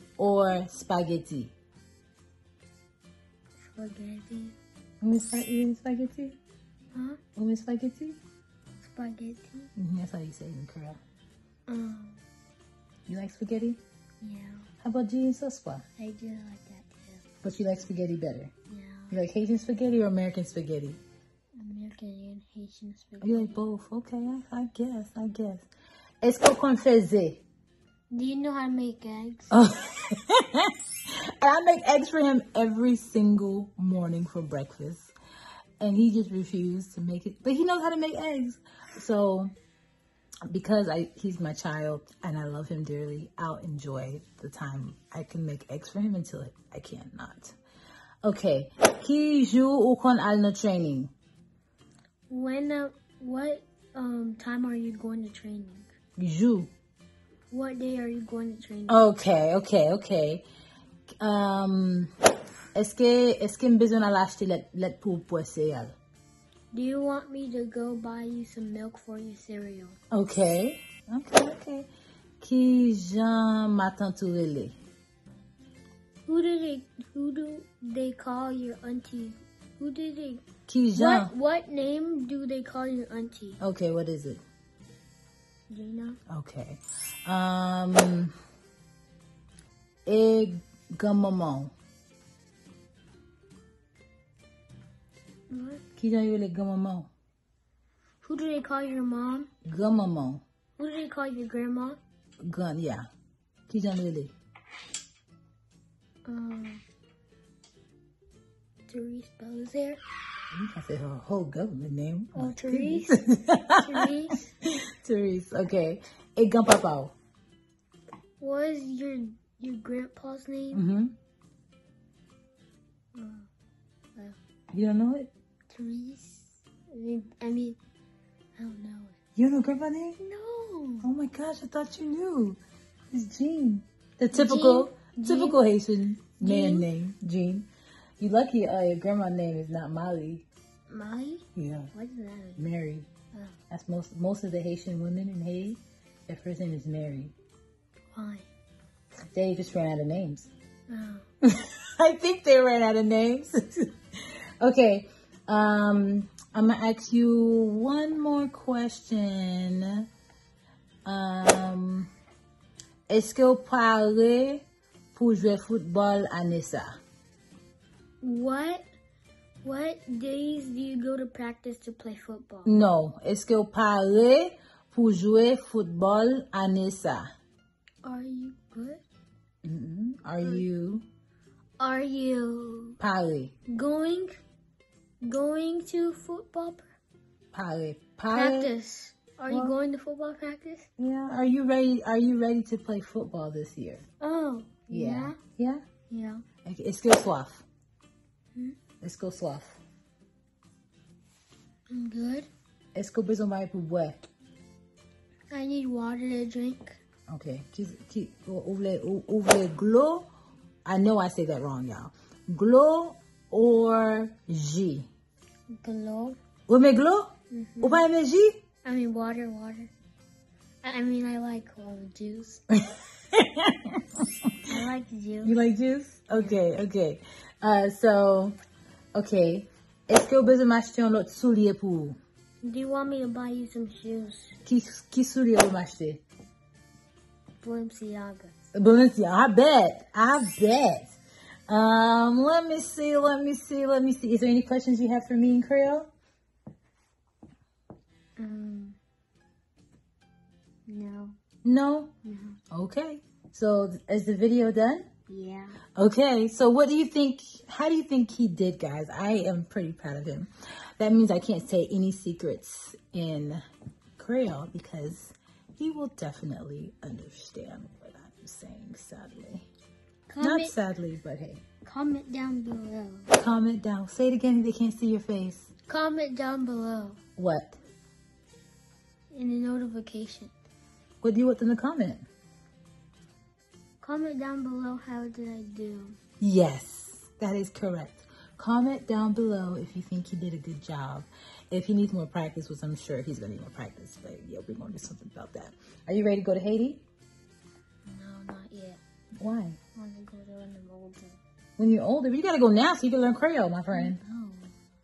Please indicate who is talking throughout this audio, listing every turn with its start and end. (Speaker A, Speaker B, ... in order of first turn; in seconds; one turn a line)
Speaker A: 0.2-1.5
Speaker B: 3.6-4.6
Speaker A: 5.0-6.4
Speaker B: 6.9-7.2
Speaker A: 7.4-8.2
Speaker B: 8.8-9.7
Speaker A: 9.8-11.0
Speaker B: 11.7-12.2
Speaker A: 13.1-13.8
Speaker B: 14.2-14.7
Speaker A: 14.8-15.8
Speaker B: 16.0-17.2
Speaker A: 17.4-18.5
Speaker B: 18.7-19.2
Speaker A: 19.1-21.0
Speaker B: 21.6-23.6
Speaker A: 23.2-25.7
Speaker A: 26.2-27.4
Speaker B: 28.1-29.6
Speaker A: 29.5-35.1
Speaker A: 35.8-39.5
Speaker A: 40.5-47.6
Speaker A: 48.2-51.1
Speaker B: 52.3-55.9
Speaker A: 56.2-56.7
Speaker B: 57.5-59.1
Speaker A: 58.9-60.5
Speaker A: 61.2-62.1
Speaker A: 62.8-65.9
Speaker B: 66.7-70.0
Speaker A: 70.1-71.9
Speaker A: 72.4-74.8
Speaker B: 76.3-83.6
Speaker A: 80.7-81.3
Speaker A: 83.6-84.4
Speaker B: 85.7-86.2
Speaker A: 86.3-88.3
Speaker A: 90.1-91.7
Speaker B: 95.5-95.8
Speaker A: 96.0-97.1
Speaker B: 98.2-99.5
Speaker A: 99.7-100.4
Speaker B: 100.8-102.0
Speaker A: 102.4-103.1
Speaker A: 103.7-104.3
Speaker B: 106.3-106.8
Speaker B: 108.9-110.0
Speaker A: 110.5-114.1
Speaker B: 112.3-113.2
Speaker B: 113.8-114.5
Speaker A: 114.6-117.1
Speaker B: 118.4-120.8
Speaker A: 120.7-121.2
Speaker B: 123.2-123.5
Speaker A: 124.7-125.3
Speaker B: 125.7-127.8
Speaker B: 128.6-129.2
Speaker A: 129.4-130.2
Speaker B: 130.2-131.1
Speaker A: 131.0-132.6
Speaker A: 133.1-137.7
Speaker B: 134.3-135.6
Speaker B: 136.4-136.9
Speaker A: 138.2-140.5
Speaker B: 140.9-142.7
Speaker A: 141.6-141.9
Speaker A: 142.6-143.1
Speaker A: 143.7-147.3
Speaker B: 148.1-148.5
Speaker A: 149.3-150.5
Speaker B: 150.9-151.3
Speaker A: 151.4-160.1
Speaker A: 161.1-162.1
Speaker A: 163.1-167.0
Speaker B: 168.2-168.9
Speaker B: 169.6-172.8
Speaker A: 172.7-177.3
Speaker B: 178.0-179.0
Speaker A: 179.6-181.1
Speaker B: 181.8-183.0
Speaker A: 183.0-183.5
Speaker B: 183.7-184.4
Speaker B: 185.2-186.9
Speaker A: 187.5-188.7
Speaker B: 188.3-190.9
Speaker A: 189.5-189.8
Speaker A: 191.0-194.0
Speaker B: 194.2-195.4
Speaker A: 194.9-195.8
Speaker B: 196.1-196.4
Speaker A: 196.7-197.7
Speaker A: 199.0-199.8
Speaker B: 201.9-202.5
Speaker A: 202.9-204.2
Speaker B: 205.5-207.0
Speaker A: 207.3-210.3
Speaker A: 210.9-215.1
Speaker B: 215.8-216.4
Speaker A: 216.7-218.6
Speaker B: 217.5-218.1
Speaker B: 218.8-219.9
Speaker B: 220.8-222.6
Speaker A: 222.8-224.1
Speaker B: 224.7-225.6
Speaker A: 225.4-228.6
Speaker B: 226.3-226.6
Speaker A: 229.2-232.2
Speaker B: 232.6-234.6
Speaker A: 234.7-236.2
Speaker B: 237.6-238.5
Speaker A: 238.7-241.2
Speaker A: 241.7-246.1
Speaker B: 248.4-249.0
Speaker B: 250.9-251.4
Speaker A: 251.6-252.1
Speaker B: 252.2-252.6
Speaker A: 252.7-255.1
Speaker B: 255.3-255.8
Speaker A: 255.9-263.6
Speaker A: 264.2-269.7
Speaker B: 270.3-270.8
Speaker A: 270.4-271.6
Speaker B: 271.8-273.3
Speaker A: 273.3-275.7
Speaker B: 275.9-277.2
Speaker A: 277.4-277.8
Speaker B: 279.3-280.5
Speaker A: 281.2-282.3
Speaker B: 284.0-286.2
Speaker A: 286.4-297.0
Speaker B: 298.1-299.0
Speaker A: 299.4-299.8
Speaker B: 299.9-301.4
Speaker A: 301.8-304.2
Speaker B: 303.9-304.7